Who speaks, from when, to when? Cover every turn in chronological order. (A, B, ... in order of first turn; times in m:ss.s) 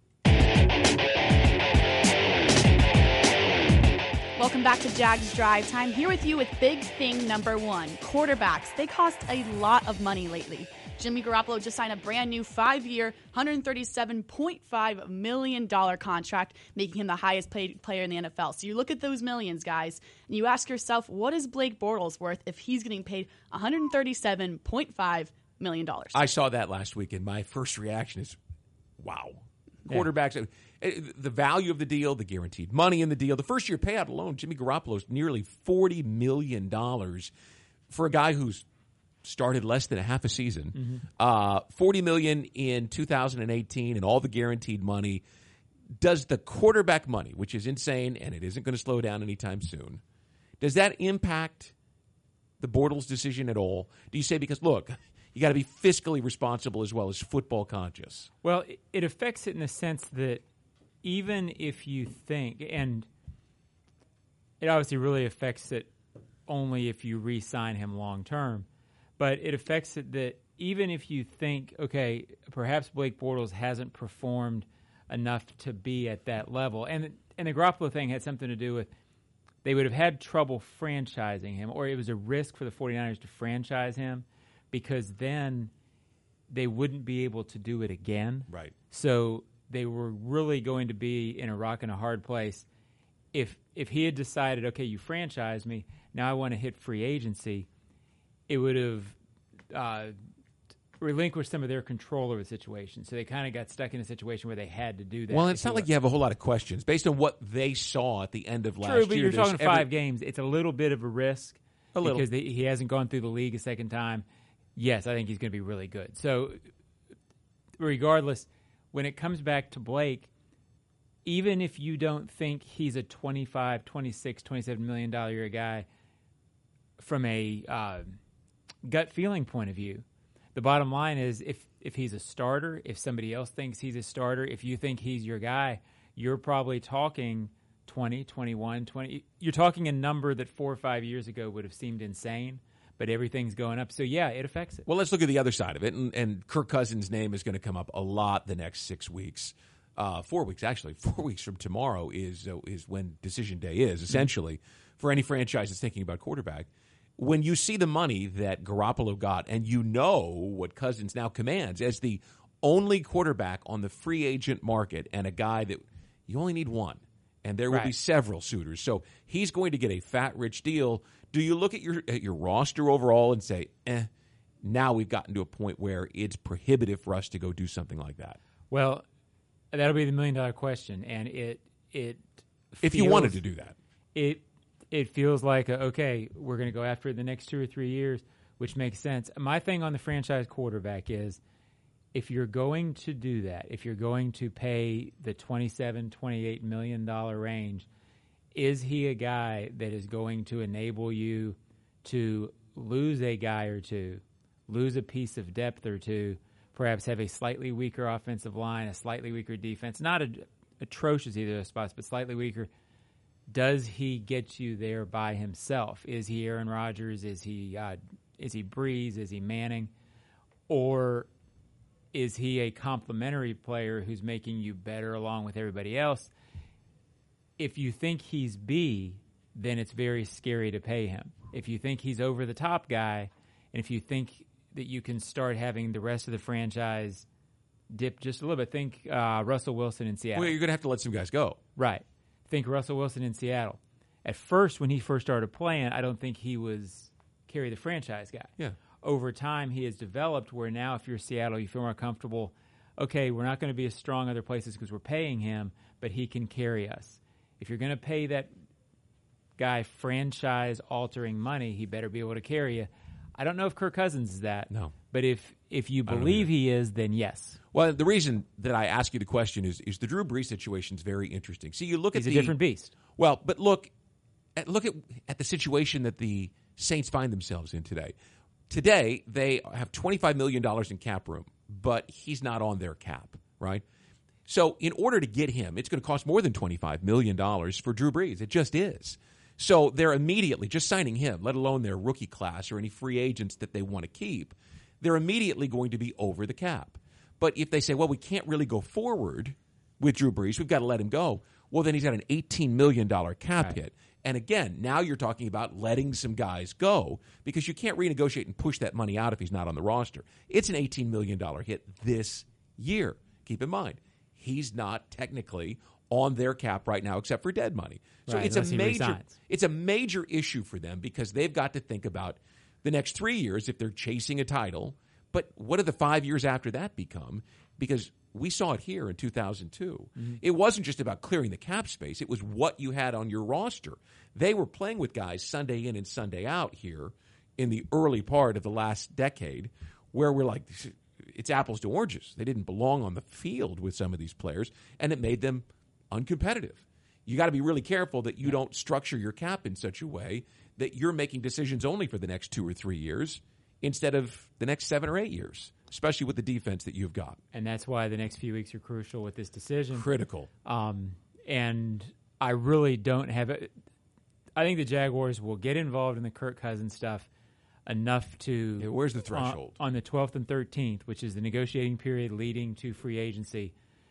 0:04.4-0:26.2 A
0:26.1-0:28.4 B
0:29.0-0:37.3 B
0:37.9-0:38.6 B
0:39.2-0:45.2 B
0:40.8-0:41.0 C
0:46.0-0:50.0 B
0:50.6-0:51.7 B
0:52.6-0:58.3 B
0:58.4-1:00.4 C
1:01.0-1:03.1 C
1:04.6-1:05.9 C
1:06.5-1:08.6 C
1:09.2-1:18.9 C
1:19.6-1:25.7 C
1:26.5-1:32.6 C
1:28.5-1:28.7 B
1:33.3-1:37.7 C
1:38.5-1:39.2 C
1:39.7-1:40.2 C
1:41.0-1:45.9 C
1:45.3-1:49.9 B
1:48.8-1:56.6 C
1:51.9-1:52.2 B
1:57.8-2:00.3 C
2:01.2-2:05.8 C
2:07.0-2:08.2 C
2:08.8-2:24.8 C
2:24.8-2:36.7 B
2:37.2-2:54.1 B
2:54.6-2:58.4 B
2:58.7-2:59.0 C
2:59.7-3:03.4 C
3:02.8-3:03.8 B
3:04.1-3:11.4 C
3:12.1-3:17.9 C
3:18.5-3:32.7 C
3:33.5-3:39.9 C
3:40.7-3:41.3 C
3:42.1-3:46.3 C
3:47.6-3:57.2 C
3:57.9-4:00.6 C
4:00.3-4:01.6 B
4:01.8-4:18.5 C
4:19.6-4:27.6 C
4:26.1-4:26.5 B
4:27.7-4:32.6 B
4:32.1-4:32.9 C
4:33.2-4:33.9 B
4:34.6-4:38.1 B
4:38.7-4:43.8 B
4:44.4-5:57.4 B
5:18.3-5:19.3 C
5:57.5-6:00.1 C
5:59.9-6:00.5 B
6:00.6-6:03.7 C
6:04.6-6:07.3 C
6:07.8-6:13.7 C
6:08.8-6:09.8 B